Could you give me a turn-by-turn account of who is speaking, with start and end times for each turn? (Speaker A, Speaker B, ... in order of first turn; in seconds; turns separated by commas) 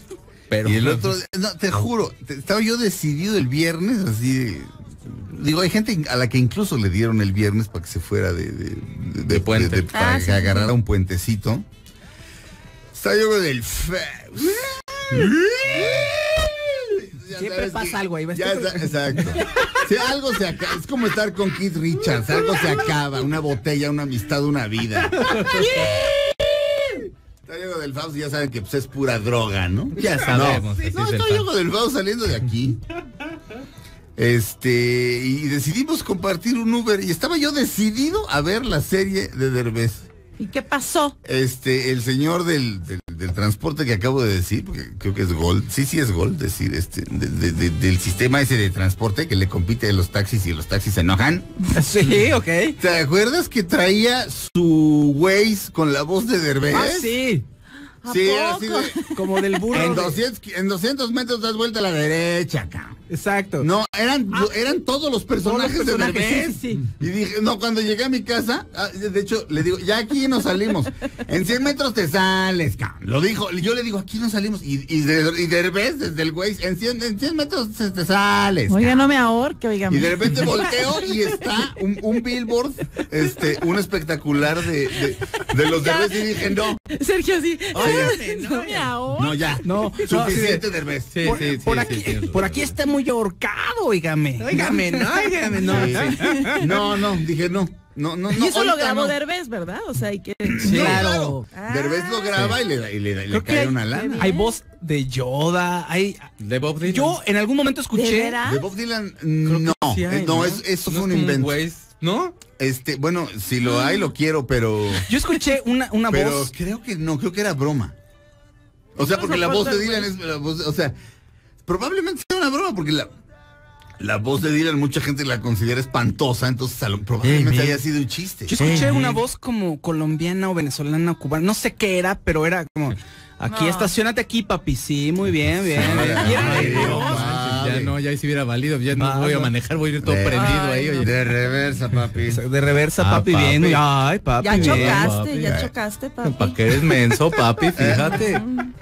Speaker A: 0.5-1.1, Speaker B: 0.6-11.6, Speaker A: 9.3-9.9, Speaker C: 9.9-10.7, Speaker B: 12.9-26.1, Speaker D: 17.4-19.8, Speaker D: 25.2-26.1, Speaker B: 27.4-32.8, Speaker A: 30.0-31.5, Speaker B: 34.2-40.0, Speaker C: 40.4-41.1, Speaker B: 41.2-51.5, Speaker D: 51.7-52.8, Speaker B: 52.8-57.2, Speaker D: 56.7-57.4, Speaker C: 58.0-60.0, Speaker B: 58.1-59.0, Speaker D: 59.1-60.2, Speaker B: 59.7-63.0, Speaker D: 63.1-63.7, Speaker B: 63.6-79.0, Speaker D: 65.4-66.8, Speaker C: 78.7-80.6, Speaker B: 79.9-86.8, Speaker C: 85.7-89.5, Speaker A: 87.7-88.9, Speaker B: 87.8-88.2, Speaker B: 89.1-91.3, Speaker D: 89.6-90.6, Speaker A: 90.2-90.6, Speaker A: 91.1-92.7, Speaker D: 91.2-96.6, Speaker A: 94.4-96.1, Speaker B: 95.6-99.1, Speaker C: 95.9-97.0, Speaker C: 98.3-102.6, Speaker A: 100.6-101.1, Speaker B: 100.6-104.3, Speaker D: 100.7-101.3, Speaker D: 103.3-106.3, Speaker C: 103.9-104.5, Speaker A: 106.4-107.2, Speaker D: 106.8-108.4, Speaker C: 107.9-108.6, Speaker B: 108.4-111.6, Speaker A: 109.5-112.4, Speaker B: 112.6-115.0, Speaker C: 113.7-114.1, Speaker D: 115.1-116.5, Speaker B: 116.1-117.9, Speaker B: 119.0-120.9, Speaker C: 119.0-120.1, Speaker B: 121.7-123.1, Speaker B: 124.0-128.6, Speaker A: 127.2-127.8, Speaker D: 128.5-137.1, Speaker A: 128.5-129.2, Speaker C: 133.5-133.9, Speaker B: 135.7-137.9, Speaker A: 135.8-141.1, Speaker C: 136.2-137.2, Speaker D: 138.9-139.5, Speaker B: 140.0-142.4, Speaker C: 140.3-141.1, Speaker D: 142.3-145.1, Speaker A: 143.0-143.8, Speaker C: 144.4-147.0, Speaker B: 144.6-144.9, Speaker A: 144.6-145.6, Speaker B: 145.4-145.7, Speaker A: 146.2-148.4, Speaker B: 147.8-148.2, Speaker C: 147.8-148.7